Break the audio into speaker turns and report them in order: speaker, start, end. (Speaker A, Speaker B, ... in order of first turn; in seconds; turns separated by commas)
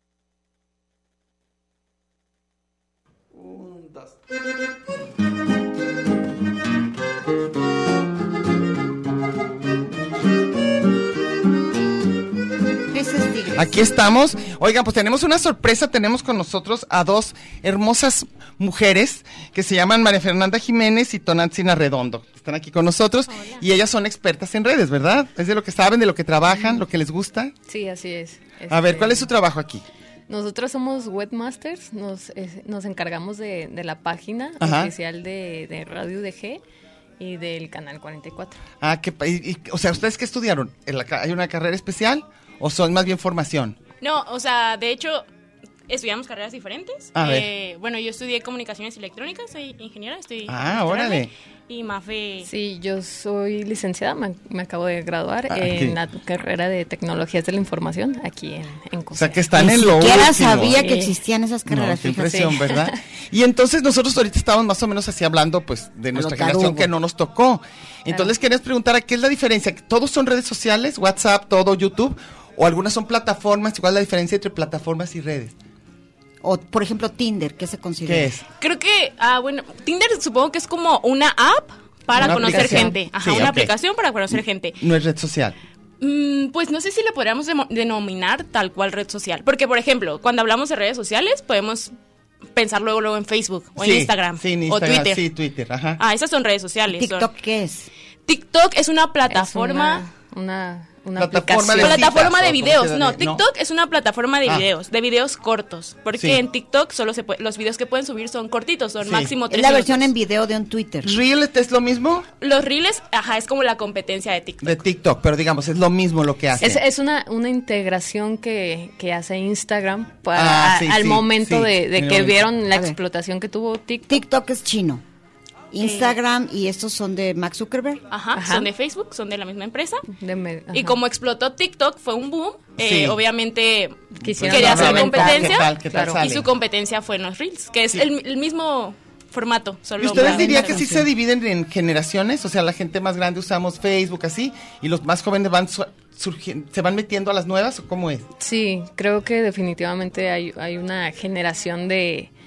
Speaker A: 3.4-4.0, Speaker B: 12.9-13.8, Speaker A: 13.6-27.5, Speaker C: 26.5-26.8, Speaker C: 27.7-29.3, Speaker A: 28.7-29.9, Speaker C: 30.3-36.6, Speaker A: 34.6-34.9, Speaker C: 37.2-38.6, Speaker A: 38.8-43.8, Speaker D: 44.0-45.2, Speaker D: 45.9-52.5, Speaker A: 47.1-47.5, Speaker A: 50.5-51.3, Speaker C: 52.4-59.5, Speaker A: 55.5-56.0, Speaker A: 59.1-60.9, Speaker B: 59.6-62.5, Speaker C: 60.7-61.2, Speaker A: 61.7-75.5, Speaker C: 62.3-63.0, Speaker B: 66.1-66.9, Speaker C: 68.1-68.3, Speaker B: 76.4-78.3, Speaker A: 78.0-78.4, Speaker D: 78.6-84.8, Speaker C: 82.2-83.1, Speaker A: 82.2-83.7, Speaker A: 84.3-85.6, Speaker D: 86.0-91.9, Speaker D: 92.5-95.2, Speaker A: 93.8-96.0, Speaker D: 96.0-97.3, Speaker B: 96.9-97.9, Speaker D: 98.3-100.0, Speaker C: 99.3-102.1, Speaker A: 101.2-103.4, Speaker D: 101.8-110.1, Speaker A: 109.0-109.3, Speaker B: 109.5-111.2, Speaker A: 111.0-112.3, Speaker D: 112.4-114.8, Speaker A: 114.6-116.8, Speaker C: 116.6-124.2, Speaker A: 120.3-122.5, Speaker B: 124.1-125.0, Speaker B: 125.7-128.0, Speaker D: 125.8-126.2, Speaker D: 128.1-130.1, Speaker C: 128.3-128.7, Speaker C: 130.1-131.0, Speaker D: 130.7-140.8, Speaker A: 132.8-133.2, Speaker C: 134.2-136.3, Speaker A: 134.2-136.5, Speaker A: 140.0-148.3, Speaker B: 140.1-141.0, Speaker C: 148.4-152.3